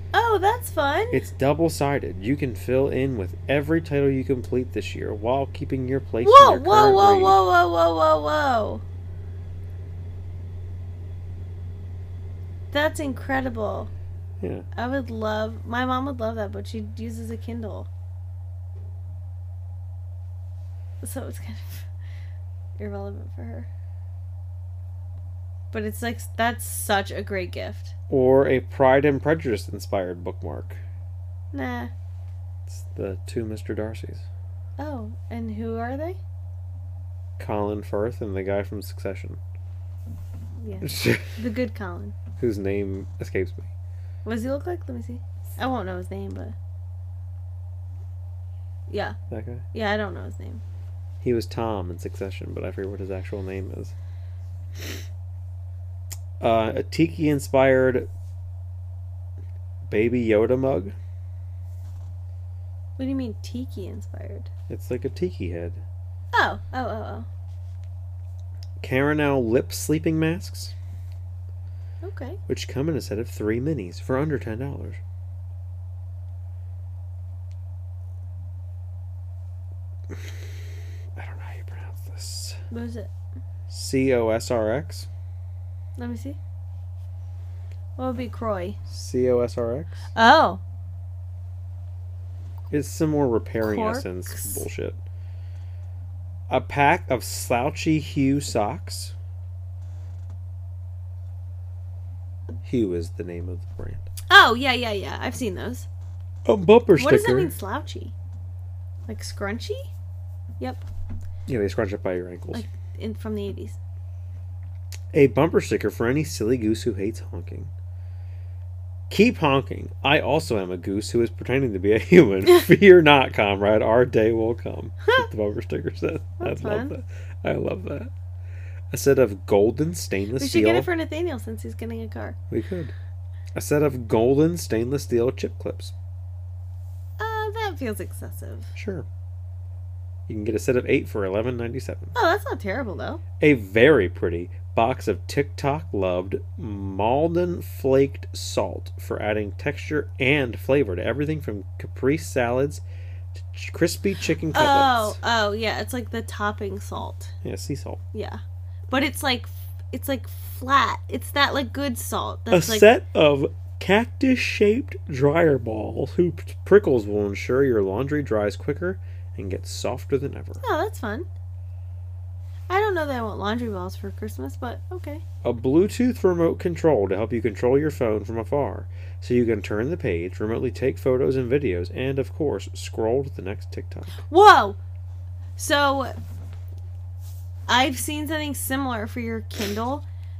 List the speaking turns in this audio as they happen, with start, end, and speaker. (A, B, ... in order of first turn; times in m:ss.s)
0:00.1-0:01.2 A
0:01.1-0:07.4 B
0:06.2-0:08.8 A
0:12.7-0:13.9 A
0:14.4-0:14.7 B
0:14.7-0:17.9 A
0:21.0-0:21.9 A
0:22.8-0:23.7 A
0:25.7-0:27.9 A
0:28.1-0:30.8 B
0:31.5-0:31.9 A
0:32.7-0:34.2 B
0:34.8-0:36.2 A
0:37.4-0:39.4 B
0:40.6-0:42.2 A
0:40.8-0:41.3 B
0:42.4-0:43.7 B
0:44.2-0:46.6 A
0:48.9-0:49.2 A
0:49.3-0:49.6 B
0:49.7-0:50.6 A
0:51.2-0:53.9 B
0:56.4-0:58.1 B
0:59.9-1:01.0 B
1:03.0-1:04.5 A
1:04.7-1:05.8 B
1:06.3-1:07.3 A
1:08.8-1:10.7 B
1:12.0-1:12.4 A
1:12.5-1:15.0 B
1:21.2-1:22.6 B
1:22.7-1:23.1 A
1:23.7-1:25.1 B
1:26.0-1:26.4 A
1:28.0-1:28.8 A
1:28.9-1:30.0 B
1:30.1-1:30.6 A
1:32.7-1:35.0 B
1:33.6-1:34.6 A
1:36.5-1:39.1 B
1:42.6-1:44.0 B
1:44.3-1:45.9 A
1:46.4-1:47.5 B
1:47.0-1:48.1 A
1:49.1-1:49.9 A
1:50.6-1:50.8 A
1:51.5-1:52.6 B
1:52.5-1:53.8 A
1:55.1-1:57.7 B
1:59.1-2:08.1 B
2:06.4-2:06.9 A
2:08.9-2:10.9 B
2:10.4-2:12.4 A
2:12.5-2:12.9 B
2:13.6-2:15.9 B
2:17.2-2:18.7 A
2:18.7-2:19.1 B
2:20.3-2:22.1 B
2:22.1-2:23.2 A
2:23.4-2:35.2 B
2:34.5-2:37.3 A
2:37.4-2:38.0 B
2:38.1-2:42.9 A
2:42.5-2:50.6 B
2:50.6-2:51.3 A
2:52.7-2:55.2 A
2:55.4-3:04.2 B
3:04.2-3:04.8 A
3:05.6-3:06.2 A
3:07.7-3:10.0 A